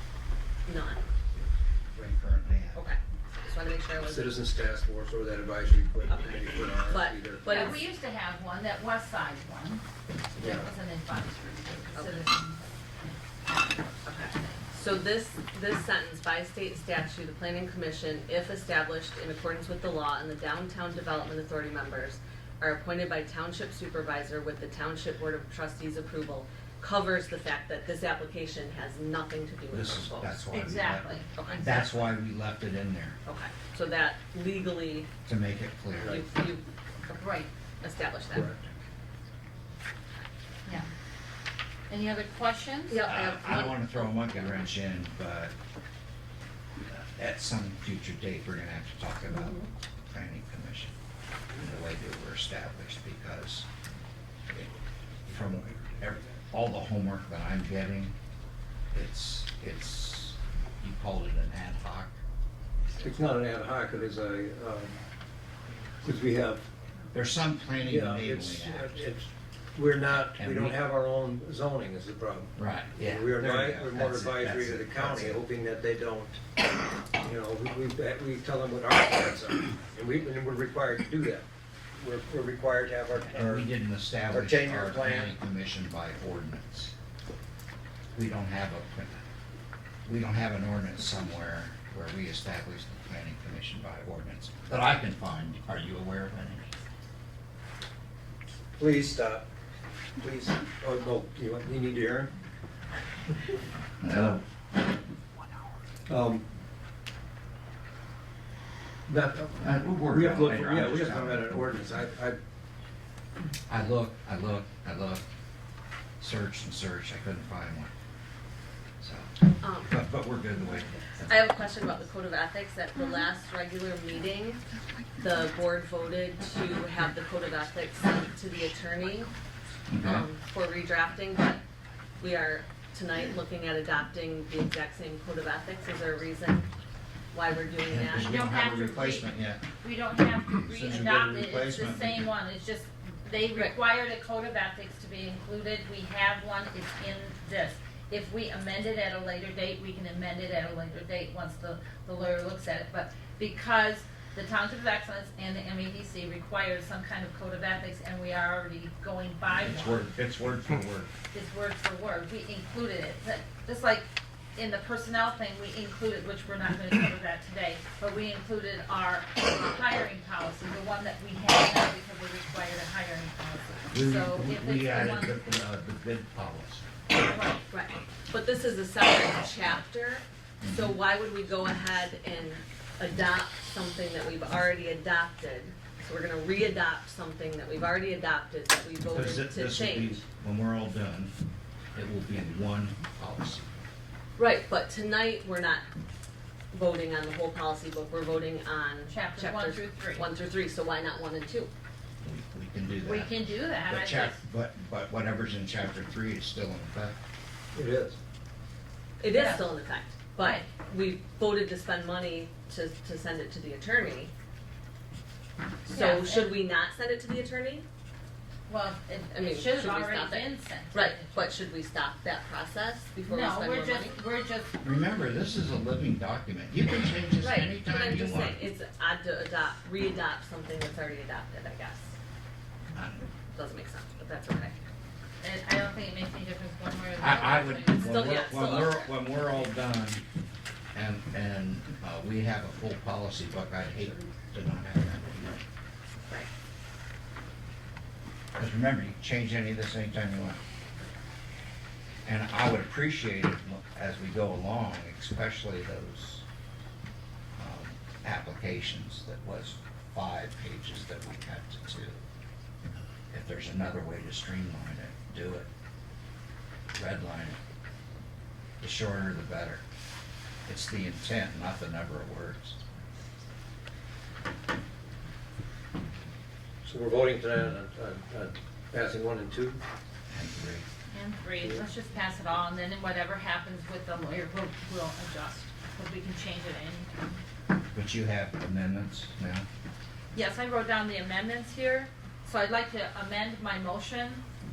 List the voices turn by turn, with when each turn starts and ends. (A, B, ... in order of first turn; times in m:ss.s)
0:00.6-0:01.0 A
0:01.9-0:02.8 B
0:02.7-0:04.3 A
0:04.0-0:07.8 C
0:06.1-0:07.8 A
0:07.5-0:09.8 D
0:10.3-0:12.6 D
0:10.4-0:10.6 C
0:11.9-0:12.2 A
0:13.4-0:14.6 D
0:14.0-0:30.4 A
0:29.7-0:33.2 B
0:30.5-0:31.7 D
0:31.3-0:31.9 A
0:33.2-0:35.1 A
0:35.2-0:36.2 B
0:36.0-0:36.6 A
0:37.1-0:37.5 D
0:37.8-0:38.6 A
0:38.3-0:38.6 C
0:41.9-0:43.0 D
0:42.9-0:44.4 A
0:43.0-0:45.5 B
0:46.9-0:50.9 B
0:51.5-0:53.7 B
0:55.3-0:58.1 B
0:58.9-1:02.1 B
1:03.0-1:05.0 C
1:06.0-1:06.6 C
1:07.1-1:09.0 B
1:07.8-1:16.4 C
1:10.1-1:10.8 B
1:12.6-1:15.4 B
1:17.2-1:23.7 C
1:23.2-1:26.9 B
1:24.3-1:25.4 C
1:28.1-1:29.2 B
1:30.0-1:36.7 B
1:38.8-1:39.5 C
1:40.2-1:42.3 C
1:44.0-1:44.4 B
1:46.1-1:46.4 C
1:49.1-1:52.4 C
1:49.6-1:51.7 B
1:53.7-1:55.2 B
1:56.2-1:57.9 B
1:59.0-2:01.5 B
1:59.6-1:59.9 A
2:01.3-2:04.6 A
2:05.2-2:09.3 A
2:09.9-2:10.2 B
2:10.0-2:11.6 A
2:12.2-2:16.7 A
2:17.3-2:18.4 A
2:17.9-2:19.6 B
2:18.2-2:40.1 D
2:20.7-2:22.2 B
2:39.5-2:41.1 B
2:41.3-2:55.4 D
2:53.9-2:57.0 B
2:57.3-2:57.6 D
2:57.7-3:10.2 A
3:00.6-3:01.0 B
3:09.1-3:11.3 B
3:11.9-3:13.7 B
3:14.4-3:15.8 A
3:16.7-3:21.7 A
3:19.1-3:20.3 D
3:22.2-3:27.2 B
3:23.0-3:24.4 D
3:27.7-3:28.2 C
3:29.2-3:34.3 A
3:29.3-3:29.7 D
3:30.4-3:30.7 D
3:35.8-3:37.8 A
3:35.9-3:36.5 D
3:38.7-3:41.6 D
3:39.3-3:44.2 A
3:43.3-3:44.7 D
3:44.8-3:48.6 B
3:47.4-3:52.1 A
3:52.9-3:53.3 B
3:53.5-3:54.7 A
3:55.4-3:58.4 D
3:57.2-4:00.2 B
3:58.0-3:59.1 A
4:00.9-4:05.6 B
4:08.6-4:10.6 B
4:12.2-4:16.4 B
4:17.6-4:22.2 B
4:23.3-4:25.7 B
4:26.9-4:27.6 B
4:28.8-4:29.8 B
4:30.7-4:32.8 B
4:36.8-4:39.8 C
4:40.3-4:40.8 B
4:41.1-4:47.1 D
4:47.9-4:49.7 B
4:50.3-4:54.4 D